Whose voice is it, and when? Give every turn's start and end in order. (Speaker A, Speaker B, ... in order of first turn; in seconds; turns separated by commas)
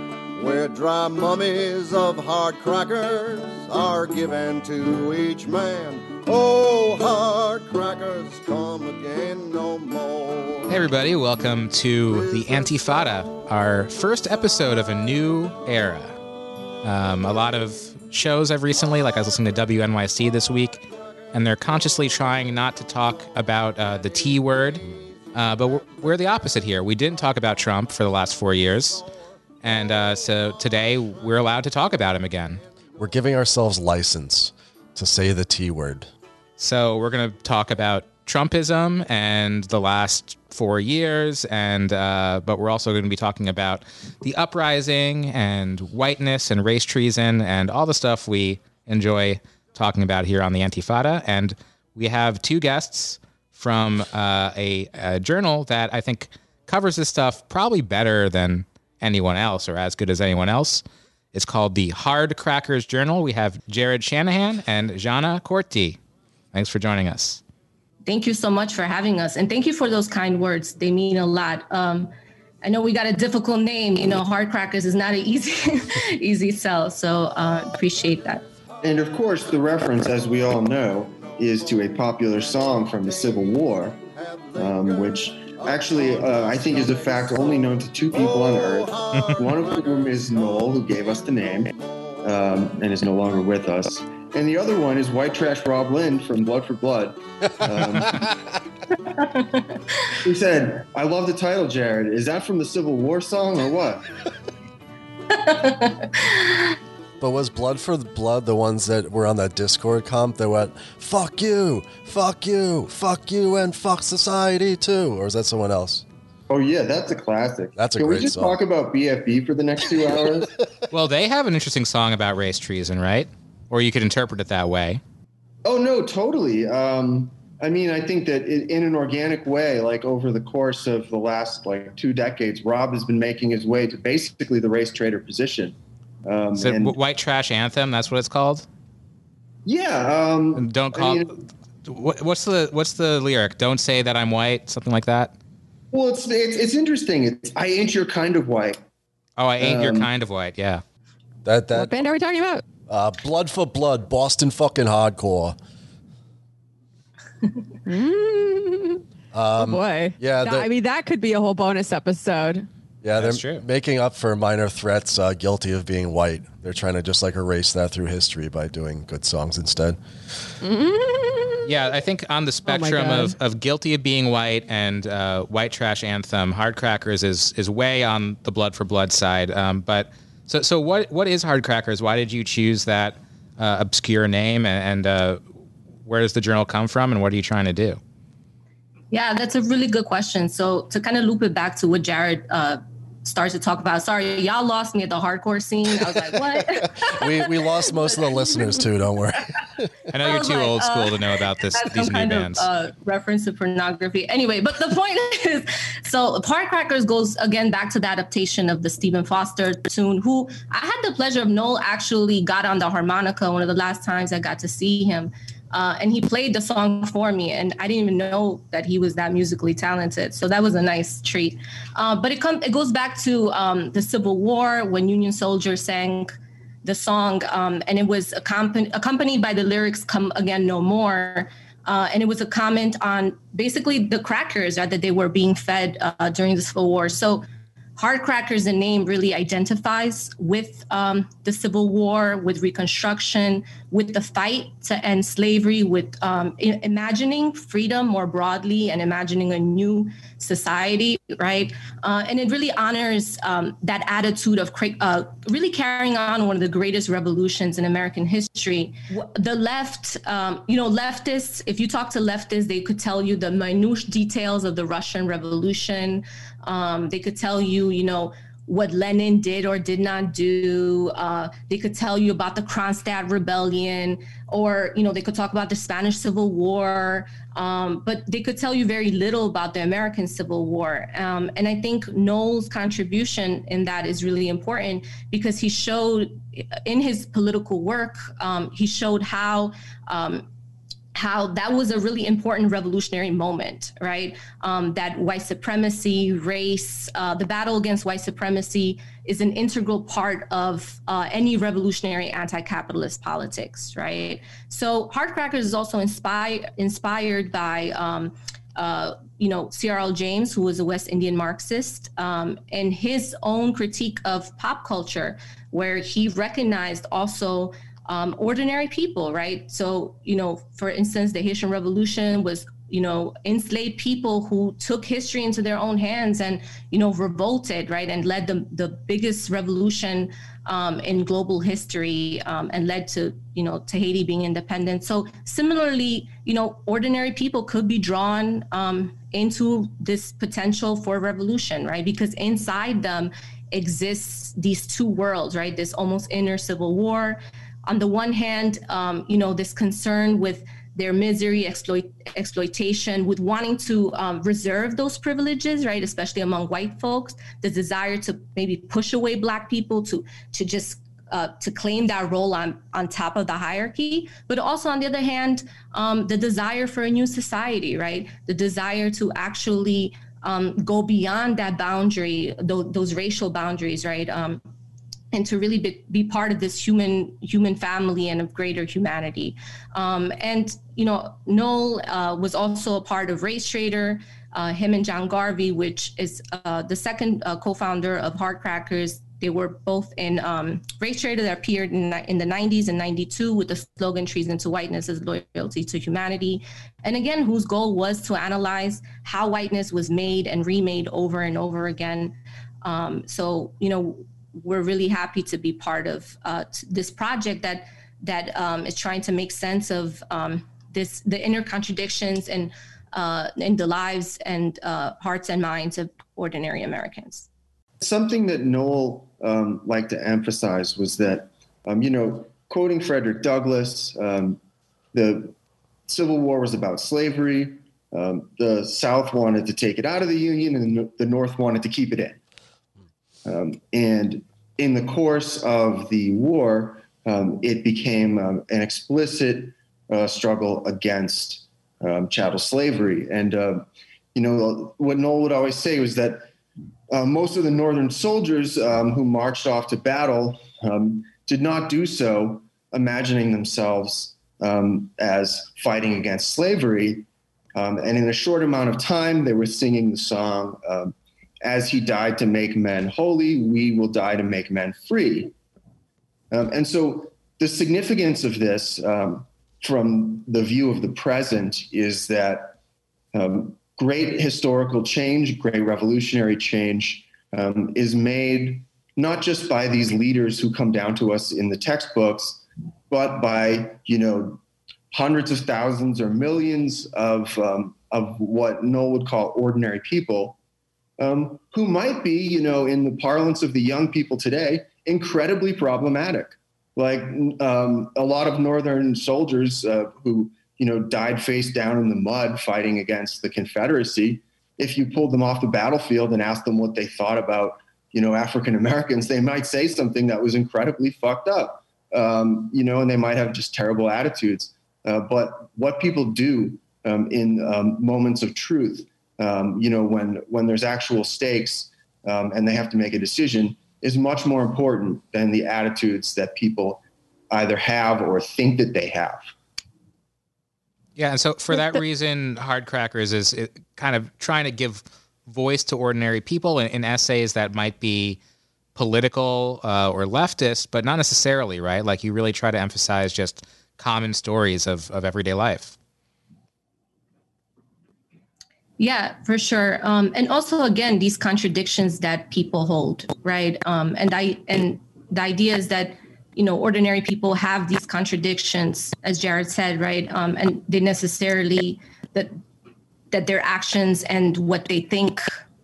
Speaker A: 0.3-10.8, Speaker B: 10.7-16.2, Speaker A: 12.3-12.6, Speaker B: 16.8-29.1, Speaker B: 29.6-32.6, Speaker C: 33.0-36.1, Speaker B: 36.6-66.0, Speaker B: 66.5-67.4, Speaker D: 68.1-72.1, Speaker D: 72.6-78.4, Speaker E: 78.8-84.0, Speaker A: 82.6-92.5, Speaker E: 84.6-98.3, Speaker D: 99.2-99.6, Speaker E: 100.2-104.0, Speaker D: 105.3-106.8, Speaker C: 107.2-116.0, Speaker E: 116.5-120.5, Speaker C: 117.8-118.6, Speaker B: 120.9-125.0, Speaker E: 125.7-136.9, Speaker B: 136.6-138.7, Speaker E: 139.7-141.3, Speaker B: 140.6-145.3, Speaker E: 145.9-148.8, Speaker B: 149.4-150.8, Speaker E: 149.6-150.1, Speaker C: 151.4-151.9, Speaker F: 151.8-152.6, Speaker C: 152.9-155.6, Speaker F: 157.8-159.0, Speaker C: 159.3-160.7, Speaker F: 159.5-162.7, Speaker C: 163.0-170.0, Speaker B: 163.2-163.7, Speaker F: 170.6-171.7, Speaker B: 171.7-185.4, Speaker F: 172.7-173.3, Speaker B: 186.0-188.0, Speaker D: 189.1-198.8, Speaker C: 196.8-199.9, Speaker B: 200.1-202.7, Speaker D: 200.2-226.3, Speaker D: 226.8-237.4, Speaker D: 238.0-290.4, Speaker D: 291.1-374.6, Speaker D: 375.3-417.5, Speaker E: 418.0-424.6, Speaker E: 425.1-425.6, Speaker E: 426.1-432.4, Speaker E: 433.4-446.5, Speaker E: 447.1-465.5, Speaker E: 466.5-472.8, Speaker E: 473.3-484.6, Speaker E: 485.1-490.6, Speaker E: 491.2-529.5, Speaker B: 531.2-538.4, Speaker F: 531.7-532.0, Speaker B: 539.0-546.0, Speaker D: 549.0-562.6, Speaker D: 563.3-565.4